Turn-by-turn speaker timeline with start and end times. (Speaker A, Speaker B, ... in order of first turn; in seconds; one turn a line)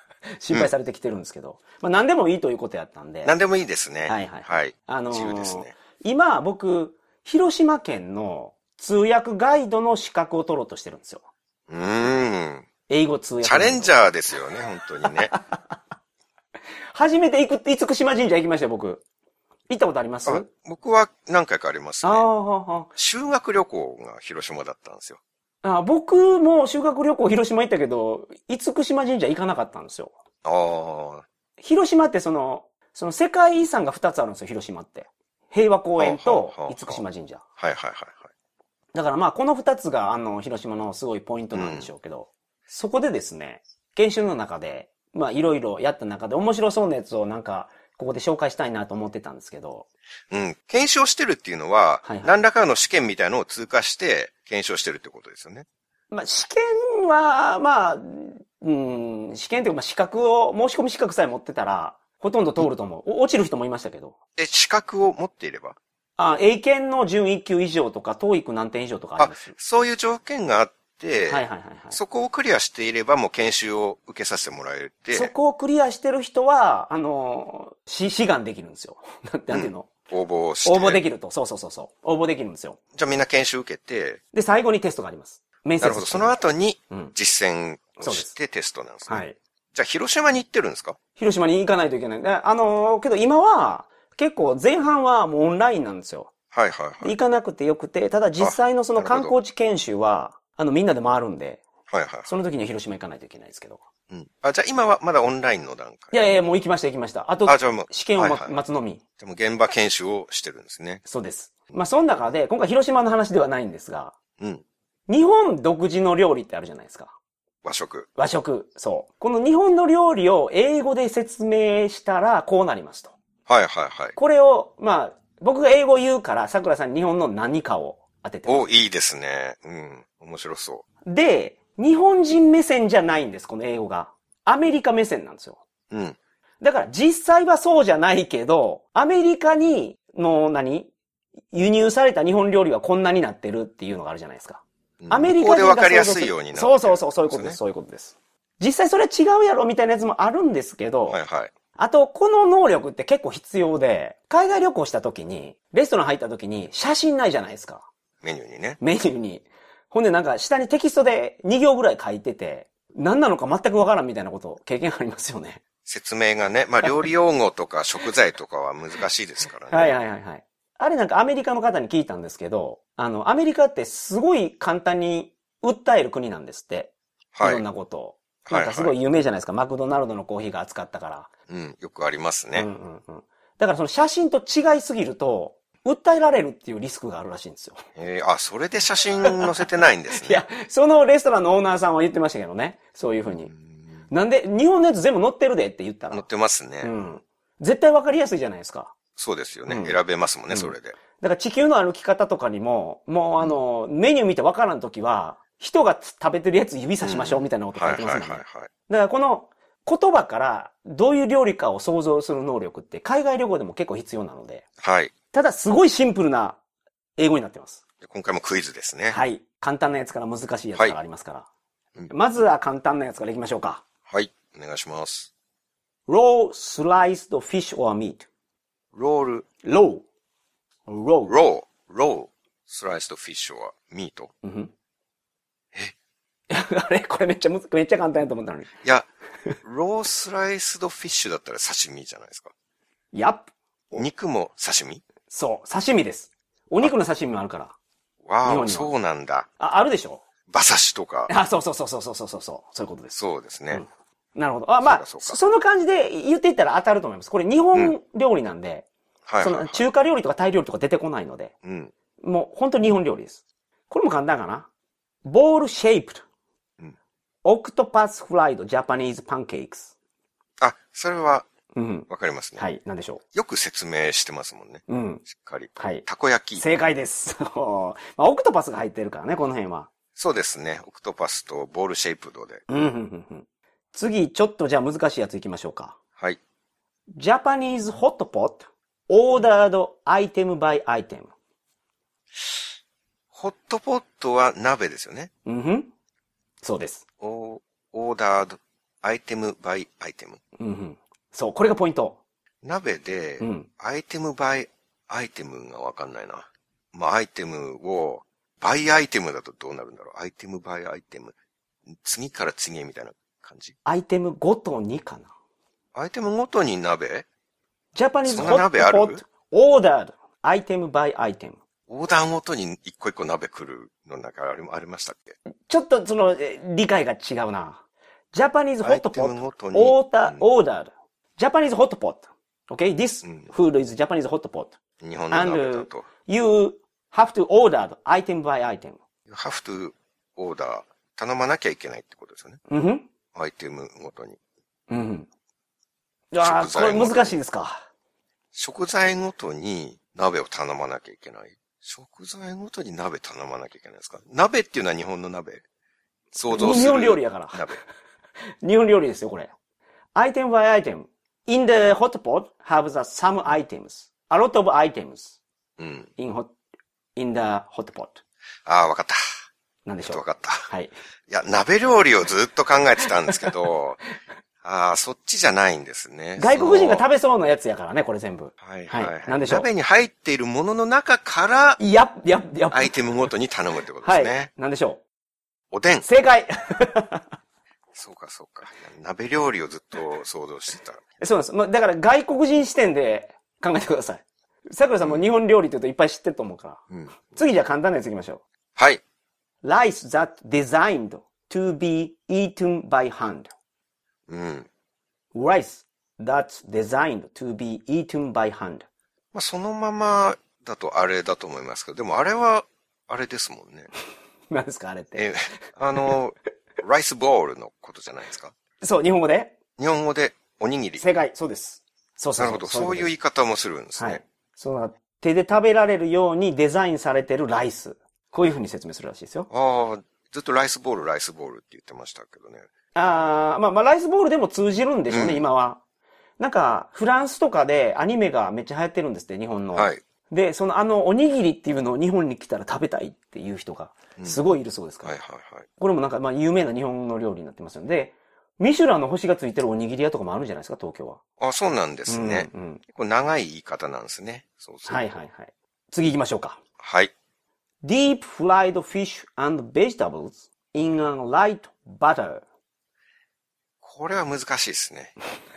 Speaker A: 0.4-3.4
Speaker B: 3.2-5.7
Speaker A: 4.0-11.2
Speaker B: 11.7-12.7
Speaker A: 12.9-13.9
Speaker B: 13.4-15.3
Speaker A: 15.0-15.8
Speaker A: 16.9-19.0
Speaker A: 19.7-20.5
Speaker B: 20.2-22.2
Speaker A: 22.0-22.9
Speaker B: 22.9-25.2
Speaker A: 25.6-30.1
Speaker B: 30.4-31.2
Speaker A: 31.6-37.4
Speaker B: 36.0-37.0
Speaker B: 37.6-38.3
Speaker A: 38.9-49.9
Speaker B: 41.5-41.9
Speaker B: 50.3-55.6
Speaker A: 52.0-52.3
Speaker A: 56.1-64.2
Speaker B: 64.4-65.8
Speaker A: 66.2-69.5
Speaker B: 69.2-75.3
Speaker A: 71.3-72.0
Speaker A: 75.1-79.9
Speaker B: 79.5-81.0
Speaker A: 80.6-82.8
Speaker B: 82.9-84.2
Speaker A: 84.3-86.3
Speaker B: 85.8-91.0
Speaker A: 88.0-88.3
Speaker A: 89.1-89.4
Speaker A: 91.2-96.3
Speaker B: 96.5-97.2
Speaker A: 97.0-101.6
Speaker B: 98.4-99.3
Speaker B: 101.9-102.3
Speaker A: 102.2-103.8
Speaker B: 104.1-106.3
Speaker A: 106.1-109.0
Speaker B: 107.5-108.5
Speaker B: 109.2-111.0
Speaker A: 111.0-114.1
Speaker A: 115.1-117.1
Speaker B: 117.6-118.1
Speaker A: 118.2-123.1
Speaker B: 123.5-124.1
Speaker A: 124.1-128.7
Speaker B: 128.4-130.8
Speaker A: 131.1-135.6
Speaker B: 135.9-136.2
Speaker A: 136.6-140.9
Speaker A: 141.5-151.2
Speaker B: 145.0-147.6
Speaker B: 151.1-151.5
Speaker A: 151.8-157.8
Speaker B: 158.2-158.8
Speaker A: 158.8-165.6
Speaker B: 165.8-169.9
Speaker A: 169.7-181.3
Speaker B: 177.3-177.6
Speaker B: 178.4-178.9
Speaker B: 181.5-182.7
Speaker A: 182.5-187.8
Speaker B: 187.9-190.4
Speaker A: 190.1-193.5
Speaker B: 193.3-194.0
Speaker A: 194.1-196.2
Speaker B: 196.1-197.0
Speaker A: 196.8-198.9
Speaker B: 199.2-201.0
Speaker A: 199.7-199.9
Speaker A: 200.5-214.7
Speaker B: 207.0-208.7
Speaker B: 214.8-215.1
Speaker A: 215.3-216.6
Speaker A: 217.2-217.8
Speaker B: 218.0-219.2
Speaker A: 219.1-221.5
Speaker A: 222.1-223.8
Speaker B: 224.1-225.3
Speaker A: 226.1-228.3
Speaker B: 228.9-229.5
Speaker A: 229.6-230.0
Speaker A: 230.9-231.3
Speaker B: 231.3-234.3
Speaker A: 234.4-234.7
Speaker A: 236.5-238.7
Speaker B: 238.8-239.1
Speaker B: 239.6-242.5
Speaker A: 243.1-244.0
Speaker B: 243.9-245.0
Speaker A: 245.3-247.7
Speaker B: 248.2-249.5
Speaker A: 248.4-248.9
Speaker A: 249.6-250.2
Speaker B: 250.5-251.3
Speaker A: 251.3-253.1
Speaker B: 253.1-253.8
Speaker A: 253.7-258.9
Speaker B: 254.8-255.4
Speaker B: 259.3-259.8
Speaker A: 259.4-261.5
Speaker B: 261.6-261.9
Speaker A: 262.2-264.7
Speaker A: 265.2-266.2
Speaker A: 267.4-269.9
Speaker B: 270.6-271.4
Speaker A: 271.7-273.2
Speaker B: 272.1-272.6
Speaker B: 273.3-276.6
Speaker A: 274.9-275.2
Speaker A: 275.8-276.0
Speaker A: 276.6-279.9
Speaker B: 280.1-282.6
Speaker A: 282.7-286.0
Speaker A: 287.1-291.3
Speaker B: 293.3-295.3
Speaker A: 295.4-295.9
Speaker A: 296.6-297.0
Speaker B: 297.2-300.4
Speaker A: 300.6-302.2
Speaker B: 302.6-311.3
Speaker A: 303.4-303.7
Speaker B: 311.9-313.8
Speaker A: 313.8-315.3
Speaker B: 315.9-317.2
Speaker A: 317.9-321.6
Speaker B: 318.2-319.2
Speaker B: 321.9-325.3
Speaker A: 325.7-334.8
Speaker B: 328.8-330.4
Speaker B: 333.2-333.5
Speaker B: 335.0-336.1
Speaker A: 335.3-339.0
Speaker B: 339.3-342.6
Speaker A: 342.7-343.1
Speaker B: 343.3-344.4
Speaker A: 344.9-345.3
Speaker A: 346.3-347.8
Speaker B: 346.4-347.3
Speaker B: 348.5-355.6
Speaker B: 356.3-357.8
Speaker A: 356.5-357.8
Speaker A: 358.6-359.5
Speaker A: 360.1-365.4
Speaker B: 365.8-366.1
Speaker A: 366.2-366.5
Speaker A: 367.1-368.2
Speaker B: 368.6-369.2
Speaker A: 369.8-370.9
Speaker B: 370.1-370.7
Speaker B: 371.3-374.0
Speaker B: 374.6-377.0
Speaker A: 376.4-379.7
Speaker B: 378.6-381.8
Speaker A: 381.8-383.1
Speaker B: 382.7-384.5
Speaker A: 384.0-385.0
Speaker B: 385.7-386.1
Speaker A: 386.0-387.2
Speaker B: 387.9-391.2
Speaker A: 391.2-398.4
Speaker B: 396.9-397.2
Speaker A: 399.6-403.5
Speaker B: 404.3-404.7
Speaker A: 405.3-408.9
Speaker B: 409.3-413.9
Speaker A: 414.5-415.3
Speaker B: 415.1-418.5
Speaker A: 418.8-419.5
Speaker B: 419.8-421.0
Speaker A: 421.0-423.1
Speaker B: 422.4-424.2
Speaker A: 424.0-429.5
Speaker B: 429.5-432.7
Speaker A: 432.9-435.8
Speaker B: 435.1-435.4
Speaker A: 436.4-445.1
Speaker B: 439.7-440.0
Speaker B: 445.0-445.7
Speaker A: 445.8-451.2
Speaker B: 451.4-455.0
Speaker A: 452.1-452.8
Speaker A: 454.9-456.6
Speaker B: 456.8-457.1
Speaker A: 457.8-462.4
Speaker B: 463.8-465.1